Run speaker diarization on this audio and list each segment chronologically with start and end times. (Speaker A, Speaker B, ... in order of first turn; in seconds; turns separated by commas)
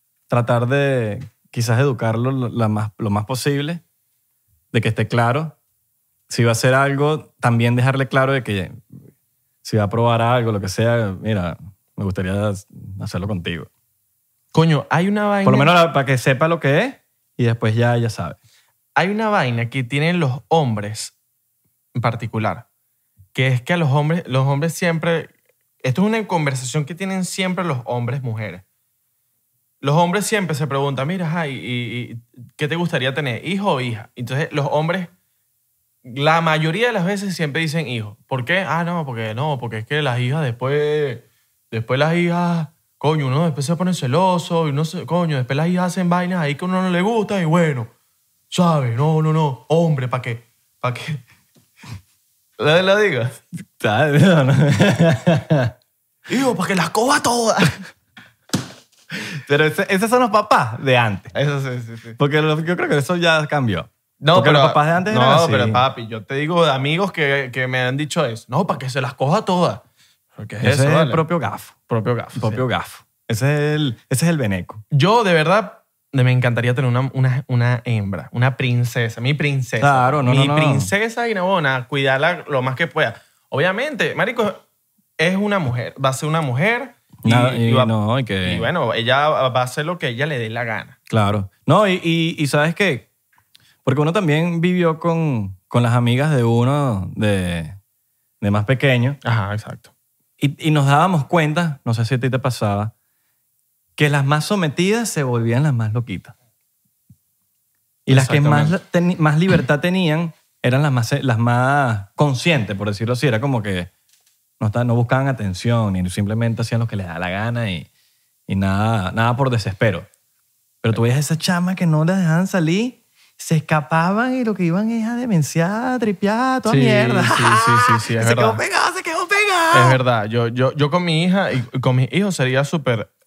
Speaker A: 0.3-3.8, Speaker A: 4.7-5.6, Speaker A: 6.3-9.0, Speaker A: 9.6-13.7, Speaker B: 14.5-15.8, Speaker A: 15.4-18.4, Speaker B: 19.0-21.1, Speaker B: 21.9-22.7, Speaker B: 23.4-28.6, Speaker B: 29.8-35.1, Speaker B: 36.0-47.9, Speaker B: 48.5-51.2, Speaker B: 52.6-53.4, Speaker A: 53.8-55.7, Speaker B: 56.3-57.8, Speaker A: 59.1-61.3, Speaker B: 61.3-62.2, Speaker A: 62.2-65.8, Speaker B: 64.2-69.8, Speaker B: 70.4-71.2, Speaker A: 70.6-71.8, Speaker B: 71.9-72.7, Speaker A: 72.3-74.8, Speaker B: 74.9-84.6, Speaker A: 79.8-80.9, Speaker B: 85.2-91.0, Speaker A: 87.2-88.7, Speaker A: 91.1-93.1, Speaker A: 93.8-97.8, Speaker A: 98.4-99.2, Speaker B: 99.2-99.9, Speaker A: 100.4-102.9, Speaker A: 104.0-106.3, Speaker A: 108.1-113.9, Speaker B: 108.1-108.8, Speaker A: 114.6-117.9, Speaker A: 118.5-120.1, Speaker A: 120.8-130.0, Speaker B: 126.7-128.6, Speaker B: 129.7-133.1